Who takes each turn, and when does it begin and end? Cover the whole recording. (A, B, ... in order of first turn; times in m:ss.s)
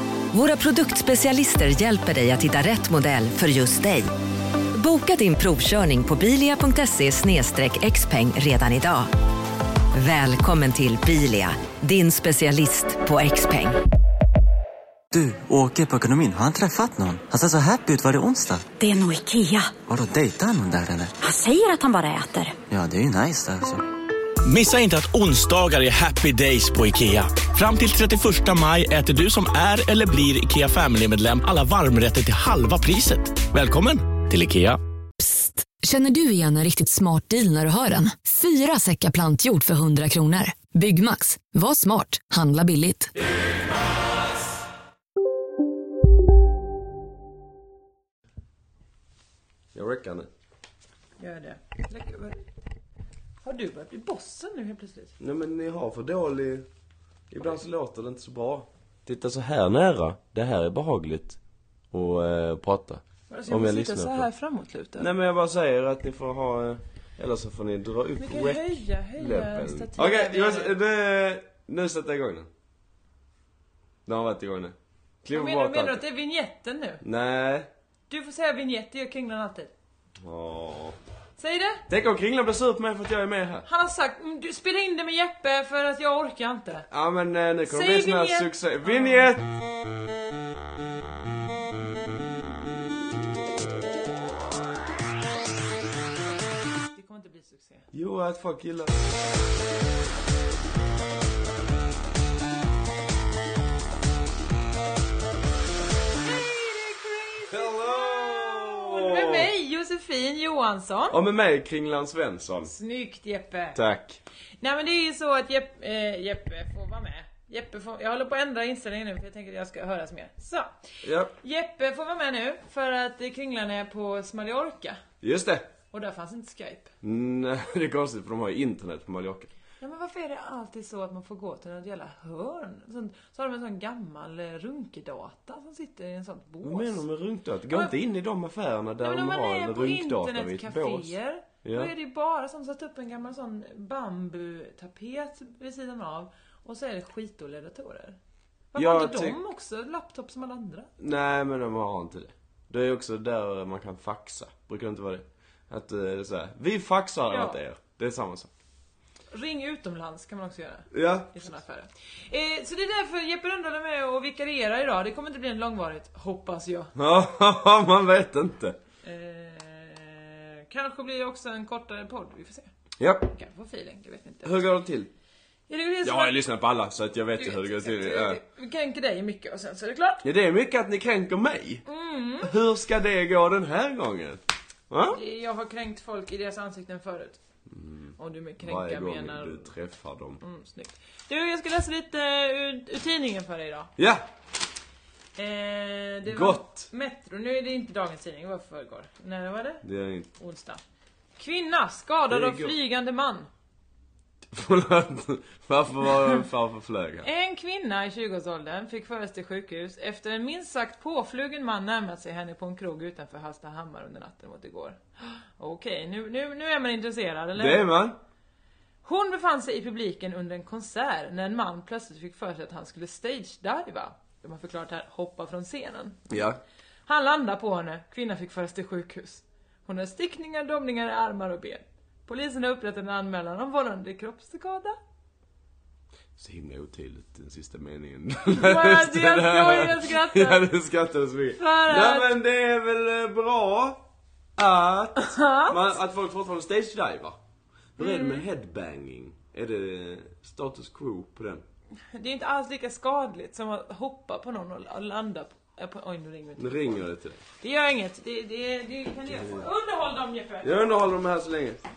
0:00.3-0:04.1 A
0:04.7-0:09.1 A
0:09.9-0:13.8 A
0:15.1-0:18.7 B
0:18.8-0:19.7 C
0:19.8-0:21.2 B
0:21.2-0:22.6 C
0:22.7-0:23.8 B
0:24.4-0:34.8 D
0:35.2-0:43.1 E
0:49.7-0:50.3 F
0:51.2-0:52.4 G
0:53.4-0:55.2 G
0:55.2-0:56.7 F
0:57.3-1:01.4 F
1:01.9-1:04.3 F
1:03.3-1:05.1 G
1:05.0-1:12.5 F
1:08.2-1:10.7 G
1:14.1-1:16.0 F
1:15.3-1:17.0 G
1:17.0-1:17.7 F
1:18.1-1:19.7 G
1:20.2-1:21.0 F
1:21.4-1:21.8 G
1:21.9-1:23.7 F
1:23.7-1:26.9 G
1:26.9-1:29.5 F
1:27.7-1:29.3 G
1:36.9-1:37.9 G
1:37.9-1:39.0 F
1:46.2-1:51.2 G
1:47.5-1:49.5 F
1:51.1-1:52.7 F
1:52.6-1:53.8 G
1:53.8-1:54.2 F
1:54.6-2:00.7 G
2:01.0-2:01.3 F
2:01.4-2:05.0 G
2:05.2-2:05.7 F
2:05.9-2:06.9 G
2:07.0-2:09.5 F
2:09.8-2:17.0 G
2:16.6-2:21.9 F
2:19.0-2:28.2 G
2:28.7-2:30.9 G
2:28.8-2:29.4 F
2:31.0-2:38.5 F
2:37.3-2:37.6 G
2:39.3-2:46.9 G
2:40.9-2:41.5 F
2:47.0-2:48.8 F
2:49.0-2:52.7 G
2:53.0-2:53.3 F
2:53.3-2:54.6 G
2:54.4-2:55.1 F
2:55.7-2:56.4 G
2:56.0-2:58.4 F
2:57.4-3:00.2 G
3:00.2-3:01.8 F
3:01.9-3:02.5 G
3:02.4-3:05.2 F
3:05.1-3:07.4 G
3:07.7-3:10.4 F
3:08.2-3:09.7 G
3:10.4-3:13.9 G
3:14.0-3:14.3 F
3:15.4-3:19.8 G
3:16.3-3:16.9 F
3:19.8-3:20.3 F
3:20.4-3:20.8 G
3:21.4-3:23.5 G
3:22.3-3:22.8 F
3:24.5-3:27.3 F
3:27.2-3:37.9 G
3:37.6-3:38.2 F
3:39.0-3:46.2 G
3:46.3-3:46.6 F
3:47.1-3:55.0 G
3:56.4-4:04.0 F
3:58.5-4:00.7 G
4:01.6-4:02.4 G
4:04.6-4:07.4 F
4:05.2-4:05.8 G
4:08.0-4:11.6 F
4:08.0-4:08.4 G
4:12.1-4:17.1 G
4:16.6-4:17.4 F
4:17.6-4:21.1 G
4:19.3-4:19.7 F
4:20.6-4:21.8 F